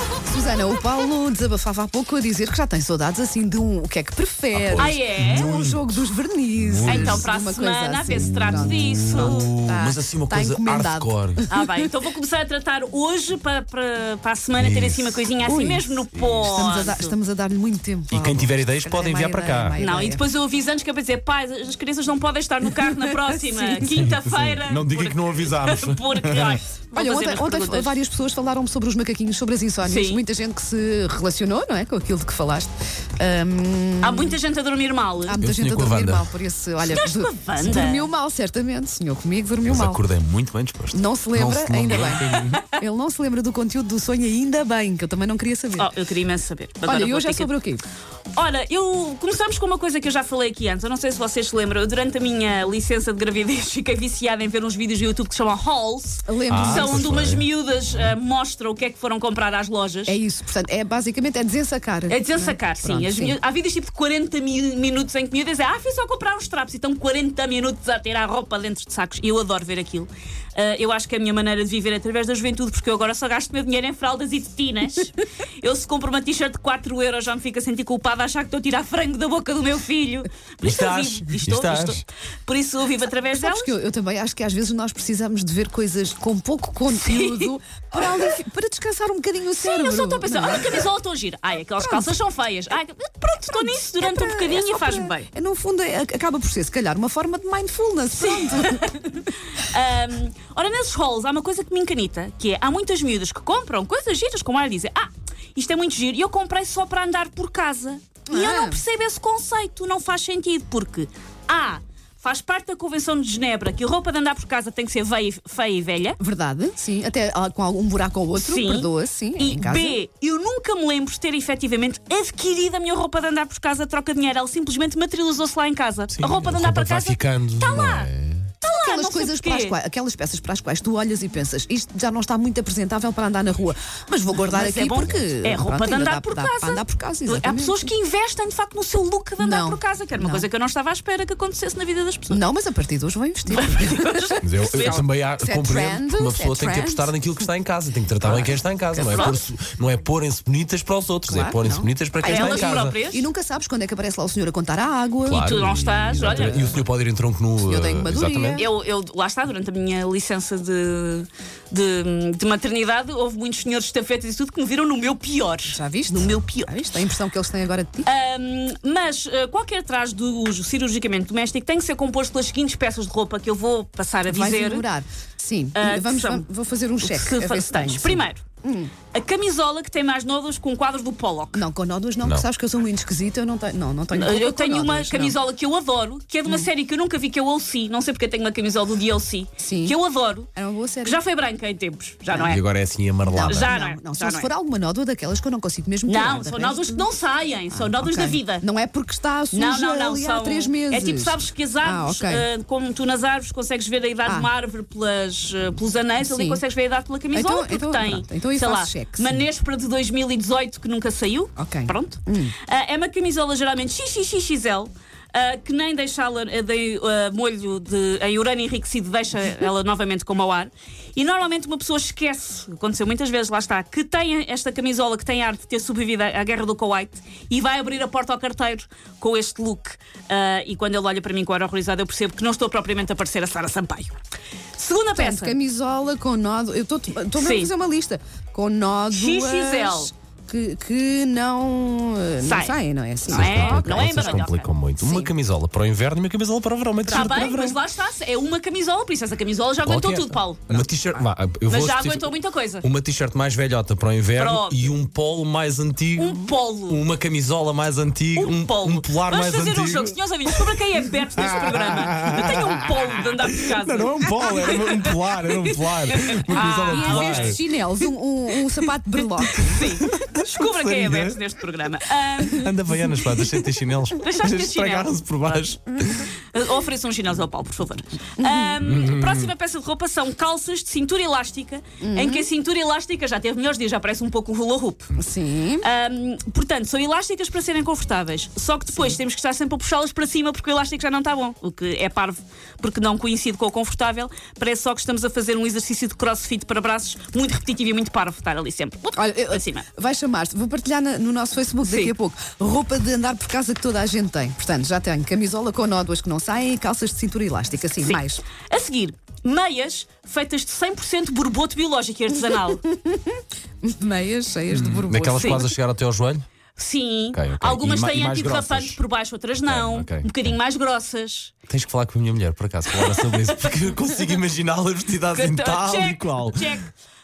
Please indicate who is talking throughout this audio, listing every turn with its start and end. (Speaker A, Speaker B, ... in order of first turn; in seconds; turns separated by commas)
Speaker A: 0.3-11.9, Speaker B: 4.5-5.9, Speaker C: 4.8-5.5, Speaker B: 6.6-7.2, Speaker C: 6.8-9.5, Speaker B: 8.2-11.5, Speaker C: 11.5-17.1, Speaker B: 14.6-15.2, Speaker A: 15.4-20.2, Speaker B: 16.1-16.5, Speaker B: 18.1-19.8, Speaker C: 19.8-28.0, Speaker A: 22.9-24.1, Speaker B: 23.8-26.6, Speaker A: 26.9-34.4, Speaker C: 29.8-30.2, Speaker C: 34.0-35.4, Speaker A: 35.2-40.0, Speaker B: 35.4-36.3, Speaker C: 36.8-38.1, Speaker B: 39.6-42.7, Speaker A: 40.9-45.9, Speaker C: 42.3-42.6, Speaker C: 45.8-47.5, Speaker A: 46.8-47.8, Speaker C: 48.3-60.1, Speaker A: 56.2-57.0, Speaker B: 56.5-57.4, Speaker A: 60.0-63.4, Speaker C: 62.1-83.7, Speaker B: 80.6-82.0, Speaker A: 83.3-90.9, Speaker C: 86.9-87.5, Speaker C: 89.6-95.3, Speaker A: 91.8-92.1, Speaker A: 93.5-99.0, Speaker C: 98.1-116.2, Speaker A: 108.3-108.8, Speaker A: 116.2-120.0, Speaker C: 118.3-128.1, Speaker B: 126.1-128.5, Speaker C: 128.6-129.8, Speaker A: 128.7-137.9, Speaker C: 134.4-142.4, Speaker A: 139.4-140.5, Speaker A: 142.3-147.1, Speaker C: 143.5-145.0, Speaker B: 144.4-152.9, Speaker A: 148.2-149.4, Speaker C: 149.1-149.4, Speaker A: 151.3-155.6, Speaker C: 152.2-153.3, Speaker B: 155.2-158.6, Speaker C: 155.3-156.7, Speaker A: 156.2-156.8, Speaker A: 157.6-158.7, Speaker C: 158.5-166.7, Speaker A: 165.6-168.1, Speaker C: 168.0-174.8, Speaker A: 174.3-178.9, Speaker C: 175.7-176.4, Speaker C: 177.0-178.4, Speaker C: 179.1-181.6, Speaker A: 181.5-185.4, Speaker C: 184.1-190.5, Speaker A: 189.6-189.9, Speaker A: 190.5-191.2, Speaker C: 191.0-192.6, Speaker A: 192.3-192.6, Speaker B: 192.4-193.7, Speaker A: 193.2-197.1, Speaker C: 193.4-194.5, Speaker C: 196.1-198.6, Speaker A: 197.7-202.5, Speaker C: 199.5-234.1, Speaker A: 204.2-204.5, Speaker A: 206.2-206.6, Speaker A: 207.3-209.4, Speaker A: 211.6-212.5, Speaker C: 234.8-235.6, Speaker A: 235.1-244.4, Speaker C: 237.3-237.7, Speaker C: 239.1-240.1, Speaker C: 242.4-244.7, Speaker B: 243.3-247.8, Speaker A: 245.0-245.3, Speaker A: 247.1-247.3, Speaker C: 247.1-250.8, Speaker B: 249.8-260.7, Speaker C: 251.7-252.8, Speaker C: 254.3-254.9, Speaker C: 256.1-257.0, Speaker C: 258.3-267.6, Speaker B: 261.4-262.9, Speaker B: 263.6-267.6, Speaker A: 266.9-269.8, Speaker B: 269.4-271.4, Speaker C: 269.6-272.7, Speaker B: 272.4-276.3, Speaker C: 274.2-275.1, Speaker C: 276.5-285.1, Speaker A: 278.4-278.8, Speaker B: 278.8-279.5, Speaker A: 282.0-282.5, Speaker A: 285.1-285.9, Speaker C: 285.8-299.8, Speaker A: 299.1-308.4, Speaker C: 301.8-302.1, Speaker C: 308.0-312.8, Speaker A: 312.6-315.6, Speaker B: 314.7-316.4, Speaker C: 315.4-315.6, Speaker C: 316.8-321.5, Speaker B: 317.3-319.0, Speaker B: 319.6-320.5, Speaker B: 321.7-326.7, Speaker C: 325.3-326.9